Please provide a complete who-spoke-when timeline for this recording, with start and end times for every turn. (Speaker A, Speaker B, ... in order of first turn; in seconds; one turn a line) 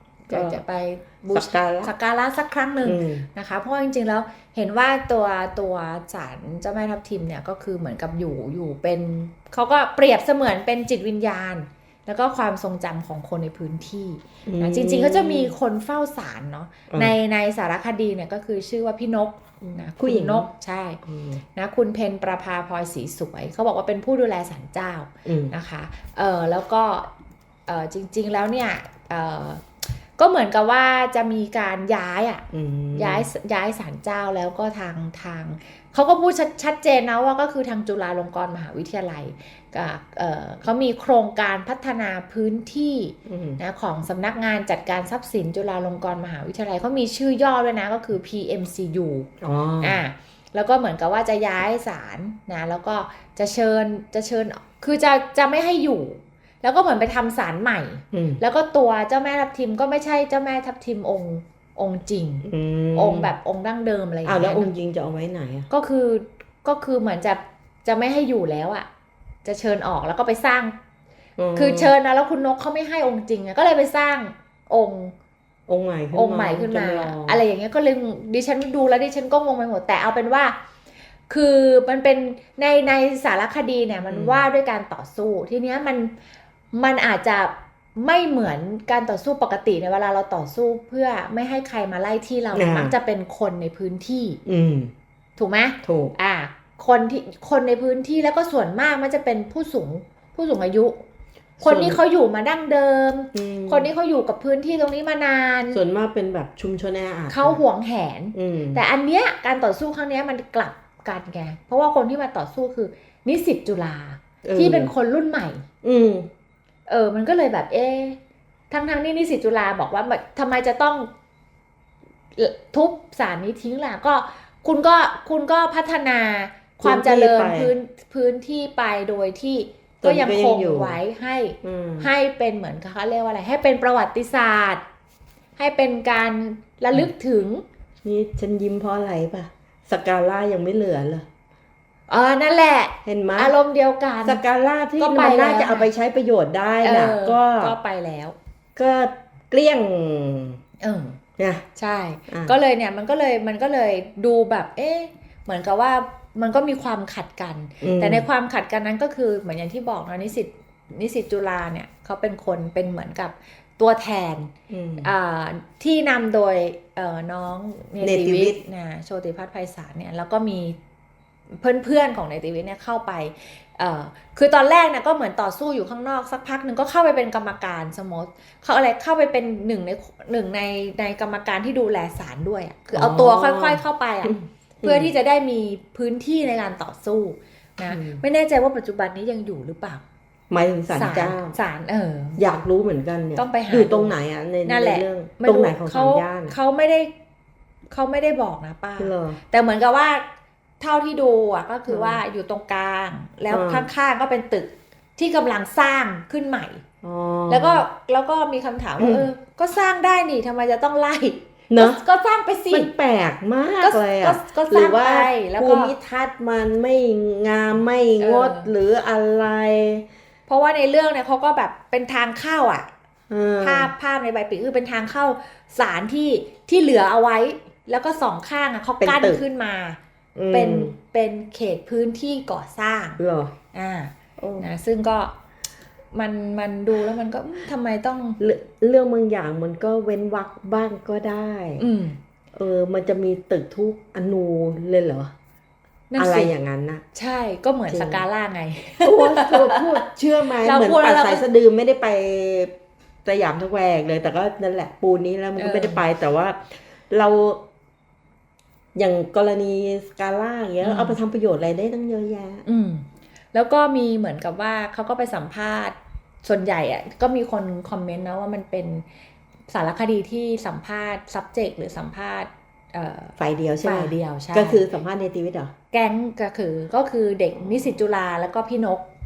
Speaker A: 0.3-21.0
Speaker B: 0.3-0.6
Speaker B: 1.3-1.9
Speaker B: 2.8-3.2
Speaker B: 14.5-15.5
Speaker B: 16.9-17.2
Speaker B: 19.6-20.5
Speaker B: 21.1-21.4
Speaker A: 21.6-27.1
Speaker B: 25.2-25.5
Speaker A: 27.7-29.6
Speaker A: 30.2-49.3
Speaker B: 32.5-33.3
Speaker B: 43.2-43.6
Speaker B: 49.4-50.0
Speaker A: 49.8-64.7
Speaker B: 58.1-58.4
Speaker B: 62.4-63.3
Speaker B: 64.2-65.7
Speaker A: 65.7-68.9
Speaker A: 69.4-70.8
Speaker B: 71.4-71.9
Speaker A: 71.5-75.2
Speaker B: 75.7-77.4
Speaker A: 76.1-80.6
Speaker A: 81.3-86.1
Speaker B: 84.1-84.4
Speaker A: 86.7-94.4
Speaker B: 92.5-92.9
Speaker B: 94.5-94.9
Speaker A: 95.4-101.0
Speaker B: 95.8-96.1
Speaker B: 101.6-102.0
Speaker A: 101.6-105.8
Speaker B: 103.3-103.9
Speaker B: 105.7-107.6
Speaker A: 107.3-115.6
Speaker B: 108.3-108.8
Speaker B: 114.4-114.9
Speaker B: 115.8-116.3
Speaker A: 116.9-118.2
Speaker A: 118.7-121.1
Speaker A: 122.4-134.8
Speaker B: 126.8-127.7
Speaker B: 130.0-131.0
Speaker B: 131.6-132.1
Speaker A: 135.6-137.6
Speaker B: 138.0-141.3
Speaker A: 142.1-144.4
Speaker B: 143.1-143.5
Speaker B: 144.2-147.8
Speaker A: 145.0-145.9
Speaker A: 146.8-148.4
Speaker B: 148.8-150.6
Speaker A: 150.8-151.2
Speaker B: 151.4-151.6
Speaker A: 151.8-170.8
Speaker B: 152.3-152.6
Speaker B: 157.8-158.2
Speaker B: 164.7-165.1
Speaker B: 168.0-168.6
Speaker A: 171.5-190.0
Speaker B: 182.9-185.1
Speaker B: 187.9-188.2
Speaker B: 190.5-191.6
Speaker A: 190.9-192.4
Speaker B: 192.4-196.5
Speaker A: 193.4-197.1
Speaker A: 197.9-200.2
Speaker B: 199.0-199.4
Speaker A: 200.8-206.8
Speaker B: 201.9-202.2
Speaker B: 203.5-203.9
Speaker B: 207.0-207.8
Speaker A: 207.5-212.9
Speaker B: 209.0-209.3
Speaker B: 211.7-212.0
Speaker B: 212.7-220.1
Speaker A: 213.8-215.9
Speaker A: 218.2-218.7
Speaker A: 220.5-222.9
Speaker B: 223.3-223.9
Speaker A: 223.6-230.0
Speaker B: 229.0-229.4
Speaker B: 230.4-230.9
Speaker A: 230.5-233.2
Speaker B: 233.2-233.5
Speaker A: 233.7-235.3
Speaker B: 234.4-234.7
Speaker A: 236.1-238.4
Speaker B: 238.4-241.8
Speaker A: 241.8-242.2
Speaker B: 242.5-245.3
Speaker A: 246.1-246.5
Speaker B: 246.2-247.0
Speaker A: 247.1-250.0
Speaker B: 247.9-248.2
Speaker B: 249.0-252.7
Speaker A: 250.6-251.4
Speaker B: 253.2-257.6
Speaker A: 255.6-256.0
Speaker B: 258.9-262.6
Speaker A: 260.8-261.2
Speaker A: 262.7-269.1
Speaker A: 269.7-274.8
Speaker B: 273.4-275.7
Speaker A: 275.9-279.1